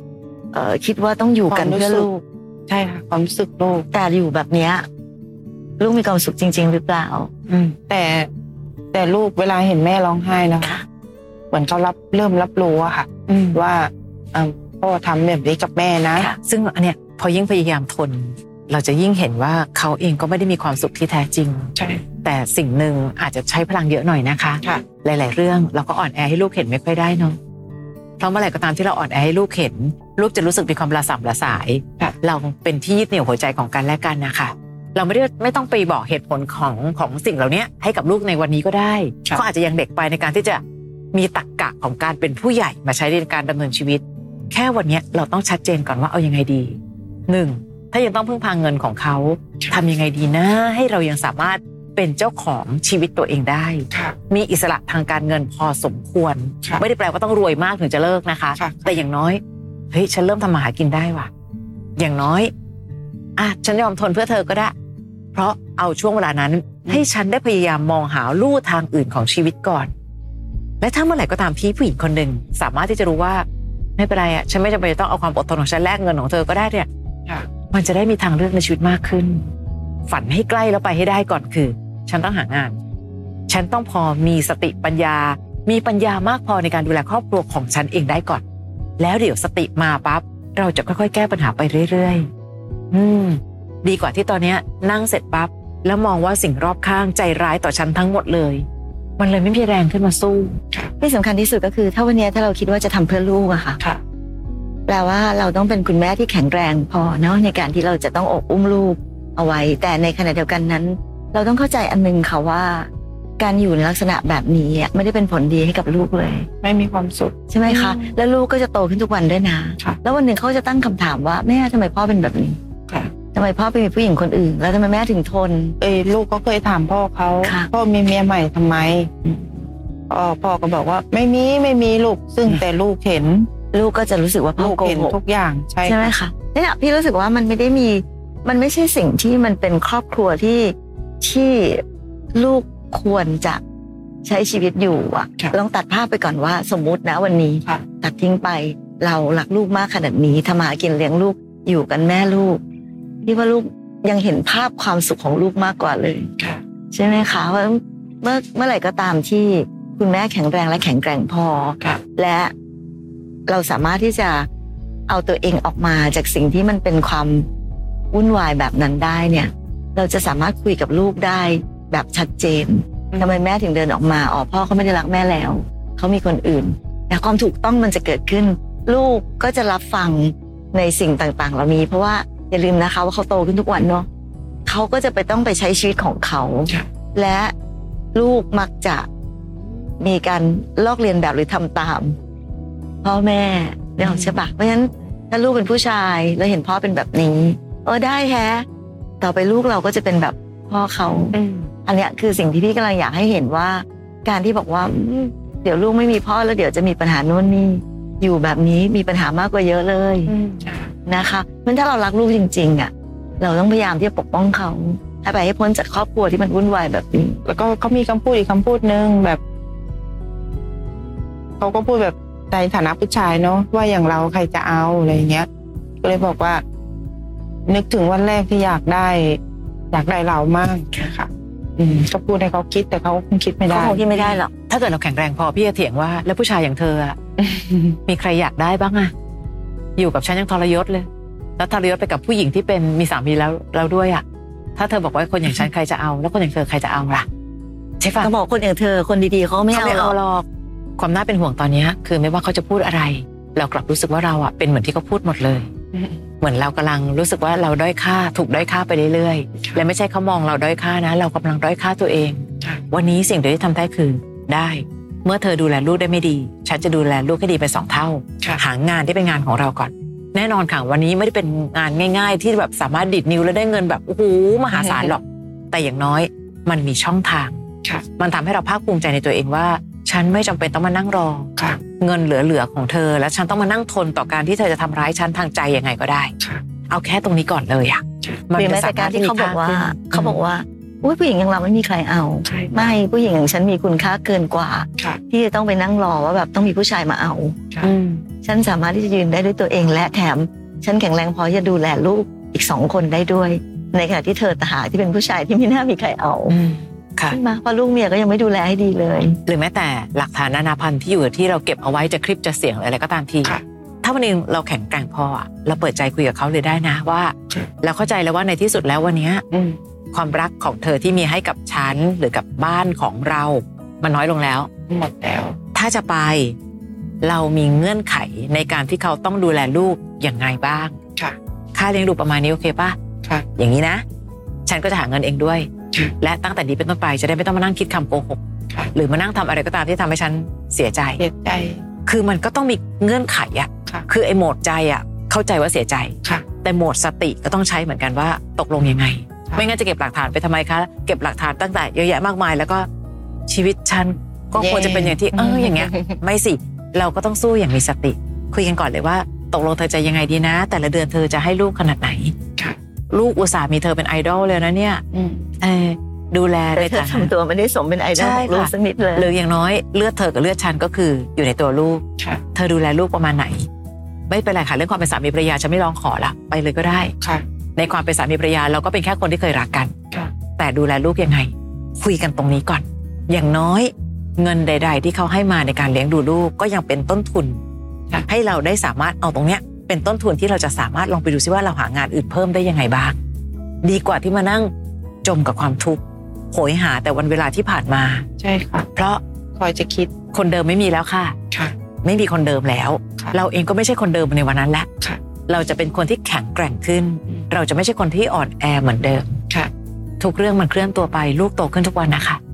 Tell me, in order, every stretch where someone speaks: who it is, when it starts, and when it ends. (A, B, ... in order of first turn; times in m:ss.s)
0:00.5-0:02.1 A
0:01.5-0:03.9 B
0:03.9-0:04.8 A
0:05.8-0:07.3 A
0:07.5-0:07.8 C
0:07.9-0:08.3 B
0:08.9-0:10.8 B
0:11.5-0:16.3 B
0:13.3-0:13.6 C
0:16.2-0:21.7 C
0:21.8-0:22.0 B
0:22.2-0:27.4 C
0:28.2-0:40.6 C
0:41.1-1:01.3 C
0:58.6-0:59.0 B
1:02.0-1:02.5 C
1:03.4-1:04.7 C
1:05.3-1:09.9 C
1:10.8-1:13.5 C
1:14.0-1:16.9 C
1:17.7-1:19.4 C
1:20.1-1:22.8 C
1:23.5-1:28.4 C
1:29.0-1:32.3 C
1:32.9-1:38.7 C
1:39.2-1:40.6 C
1:41.0-1:43.8 A
1:44.9-1:56.5 A
1:56.6-1:58.2 B
1:57.5-2:02.6 A
2:03.3-2:05.8 A
2:05.8-2:13.5 B
2:07.4-2:07.7 A
2:13.7-2:15.2 A
2:14.6-2:16.1 B
2:15.8-2:21.8 A
2:22.3-2:23.6 A
2:24.2-2:32.6 A
2:33.3-2:36.4 A
2:36.9-2:42.5 A
2:43.5-2:44.5 A
2:45.1-2:47.5 A
2:48.1-3:04.1 A
2:53.1-2:53.4 B
3:04.7-3:07.5 A
3:08.1-3:09.1 A
3:10.0-3:12.2 A
3:13.0-3:18.7 A
3:14.0-3:14.4 B
3:19.2-3:30.3 A
3:21.3-3:21.7 B
3:30.3-3:30.9 B
3:31.1-3:37.4 A
3:37.4-3:39.4 B
3:41.6-3:45.5 B
3:46.0-3:46.6 B
3:47.7-3:49.4 B
3:49.9-3:54.3 B
3:53.7-3:54.5 A
3:54.7-3:57.2 C
3:57.4-3:58.0 B
3:58.1-3:59.1 C
4:00.0-4:01.1 C
4:01.6-4:04.2 C
4:04.8-4:07.3 C
4:08.0-4:08.3 C
4:08.2-4:10.2 A
4:09.7-4:10.5 C
4:11.0-4:15.7 C
4:16.4-4:37.6 C
4:34.7-4:35.1 B
4:38.2-4:46.3 C
4:46.9-4:50.4 C
4:48.6-4:57.7 A
4:52.4-4:53.0 B
4:57.8-4:58.2 C
4:58.4-5:06.6 A
5:06.5-5:07.4 C
5:07.3-5:09.4 A
5:09.5-5:19.4 C
5:19.5-5:19.8 B
5:20.1-5:24.7 C
5:24.9-5:25.6 B
5:25.7-5:26.6 C
5:27.2-5:31.0 C
5:31.7-5:33.0 C
5:33.6-5:34.0 C
5:34.7-5:35.7 C
5:36.2-5:38.4 C
5:38.9-5:41.2 C
5:41.2-5:41.8 B
5:42.1-5:52.9 C
5:53.5-6:02.3 C
5:54.5-5:56.2 B
6:03.1-6:05.0 C
6:05.1-6:05.5 B
6:05.6-6:07.3 C
6:06.8-6:09.3 A
6:08.2-6:12.0 C
6:12.6-6:13.7 C
6:14.3-6:17.1 C
6:17.8-6:19.9 C
6:20.6-6:27.6 C
6:28.3-6:33.2 C
6:33.8-6:34.7 C
6:35.2-6:36.0 C
6:36.5-6:38.3 C
6:38.4-6:38.9 B
6:39.0-6:39.2 C
6:39.6-6:40.1 B
6:40.3-6:41.4 C
6:42.0-6:44.9 C
6:45.5-6:49.4 C
6:50.2-6:52.4 C